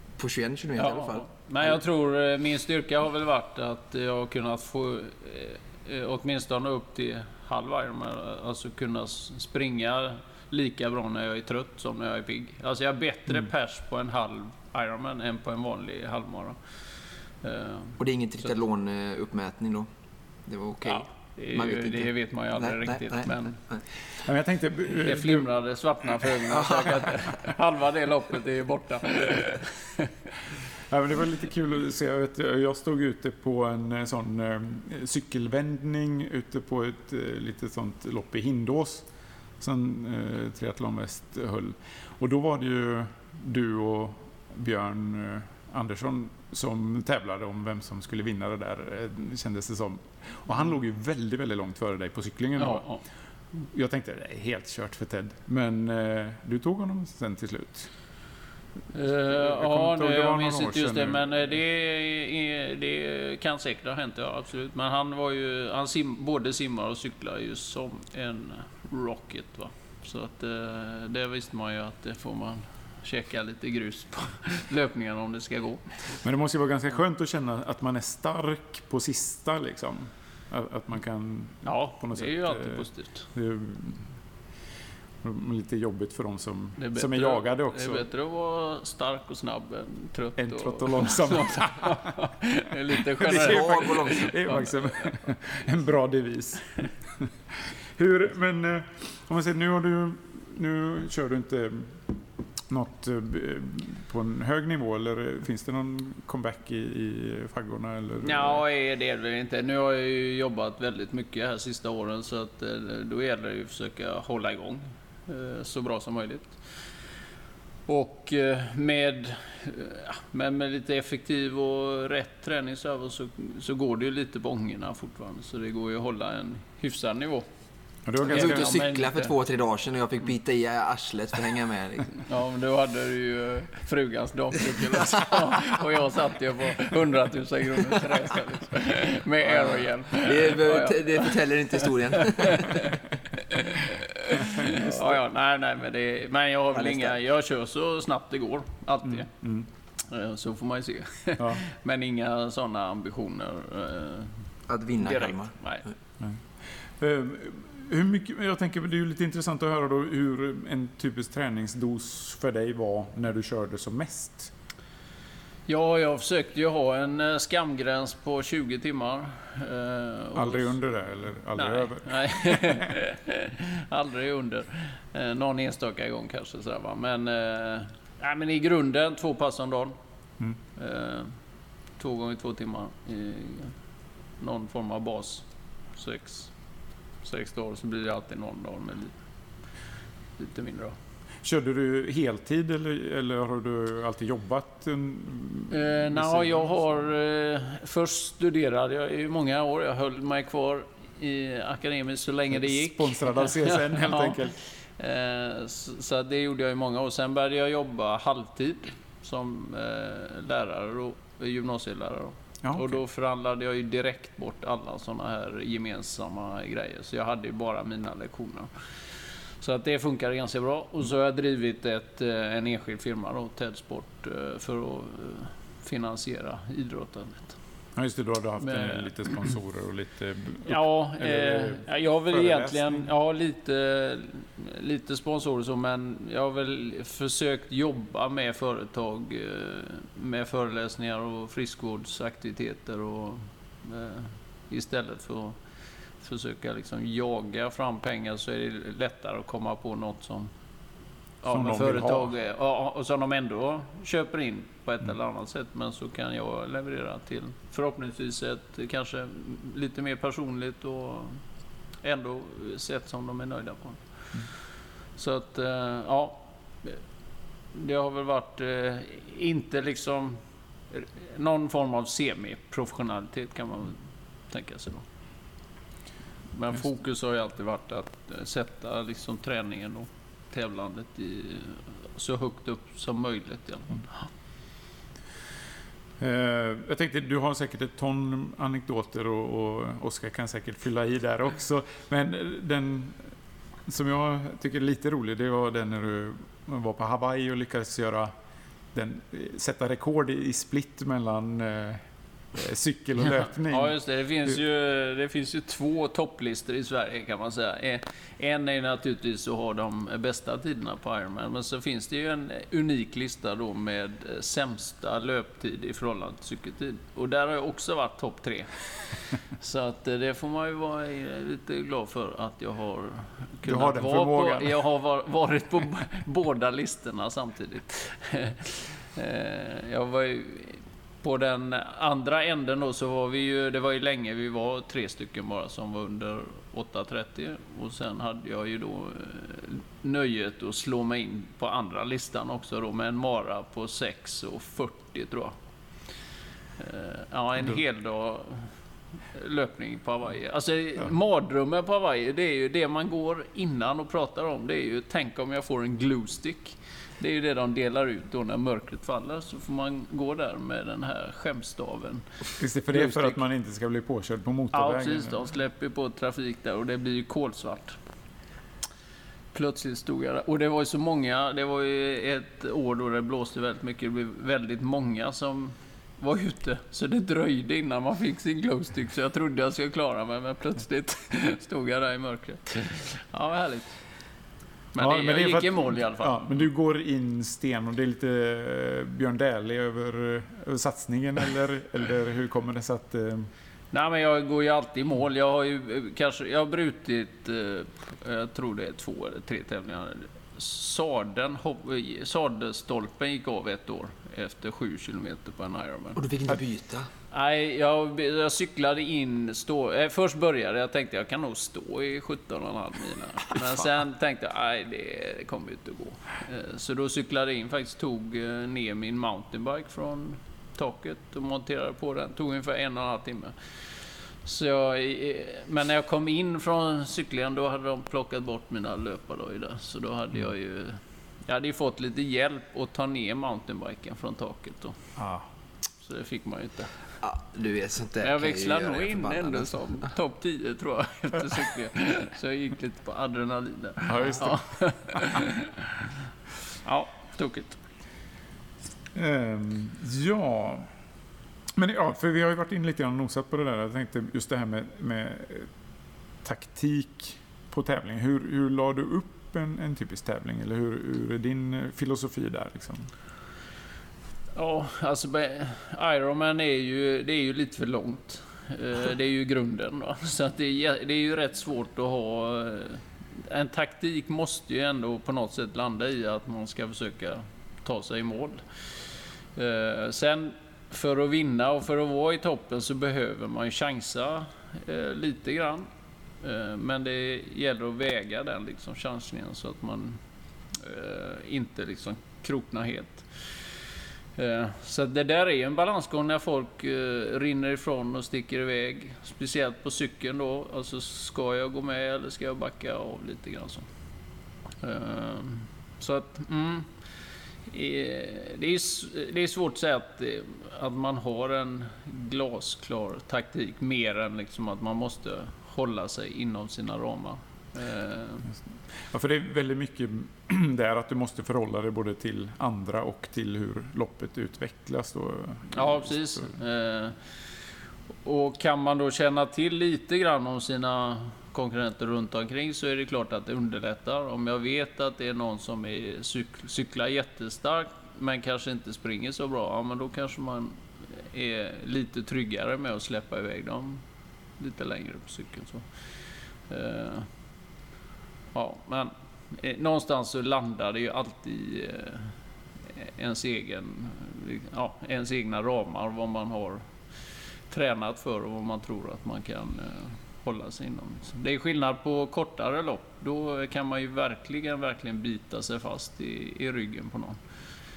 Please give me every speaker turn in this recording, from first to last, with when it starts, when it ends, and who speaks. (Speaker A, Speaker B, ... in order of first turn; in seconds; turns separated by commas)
Speaker A: 0.2-1.8, Speaker B: 0.8-16.6, Speaker B: 17.4-18.0, Speaker A: 18.0-19.9, Speaker A: 20.5-23.8, Speaker B: 20.9-23.6, Speaker C: 24.2-25.5, Speaker B: 25.0-30.1, Speaker A: 26.5-27.0, Speaker C: 30.9-39.0, Speaker C: 39.6-52.9, Speaker B: 52.6-53.0, Speaker C: 53.6-57.9, Speaker B: 58.9-76.2, Speaker C: 59.3-61.4, Speaker C: 76.2-84.1, Speaker B: 81.6-83.2, Speaker C: 85.2-88.0, Speaker B: 86.8-94.8, Speaker C: 90.4-92.2, Speaker C: 92.9-108.6, Speaker A: 93.3-94.5, Speaker B: 108.2-116.6, Speaker B: 117.9-127.4, Speaker C: 128.1-128.7, Speaker A: 128.2-132.2, Speaker B: 128.3-129.3, Speaker B: 132.2-149.3, Speaker A: 139.5-142.9, Speaker C: 144.6-145.1, Speaker A: 146.7-147.1, Speaker C: 149.0-149.7, Speaker B: 150.0-154.3, Speaker A: 154.7-155.6, Speaker B: 155.0-155.8, Speaker C: 156.2-164.5, Speaker B: 165.7-170.8, Speaker C: 170.3-172.9, Speaker B: 171.5-179.9, Speaker B: 180.8-181.3, Speaker B: 182.0-183.8, Speaker B: 184.4-186.5, Speaker B: 187.2-189.1, Speaker B: 190.4-191.0, Speaker C: 191.4-196.7, Speaker B: 195.7-204.4, Speaker C: 202.5-204.6, Speaker B: 205.0-218.7, Speaker C: 212.6-213.0, Speaker B: 219.6-227.6, Speaker C: 228.0-233.1, Speaker B: 228.6-229.3, Speaker B: 230.7-245.6, Speaker B: 246.2-250.5, Speaker B: 251.4-261.4, Speaker C: 251.5-252.3, Speaker B: 262.0-264.6, Speaker B: 265.1-267.0, Speaker B: 267.7-270.4, Speaker B: 270.9-275.1, Speaker B: 276.5-284.3, Speaker C: 286.2-293.4, Speaker C: 293.9-298.3, Speaker C: 298.9-302.0, Speaker C: 302.5-304.6, Speaker B: 303.7-345.5, Speaker C: 323.6-324.8, Speaker B: 346.8-348.7, Speaker B: 349.3-362.2, Speaker C: 362.6-365.4, Speaker B: 362.9-363.4, Speaker B: 364.7-368.0, Speaker B: 369.5-384.0, Speaker B: 384.9-386.4, Speaker C: 385.0-393.5, Speaker B: 393.9-406.2, Speaker A: 406.1-407.1, Speaker B: 407.3-423.5, Speaker B: 424.4-435.0, Speaker C: 435.1-435.5, Speaker B: 436.0-436.9, Speaker A: 437.2-440.1, Speaker B: 438.2-446.1, Speaker C: 444.1-445.4, Speaker B: 446.8-447.8, Speaker C: 449.1-450.9, Speaker C: 451.8-455.7, Speaker C: 456.4-463.1, Speaker B: 464.5-478.6, Speaker B: 479.5-485.9, Speaker B: 486.4-490.2, Speaker B: 490.7-493.6, Speaker B: 494.4-503.9, Speaker B: 504.8-506.9, Speaker B: 507.7-518.5, Speaker C: 518.9-526.5, Speaker B: 525.7-527.2, Speaker B: 528.2-544.0, Speaker B: 544.6-546.0, Speaker B: 546.6-547.3, Speaker B: 548.5-552.3, Speaker B: 552.9-556.9, Speaker B: 557.7-567.4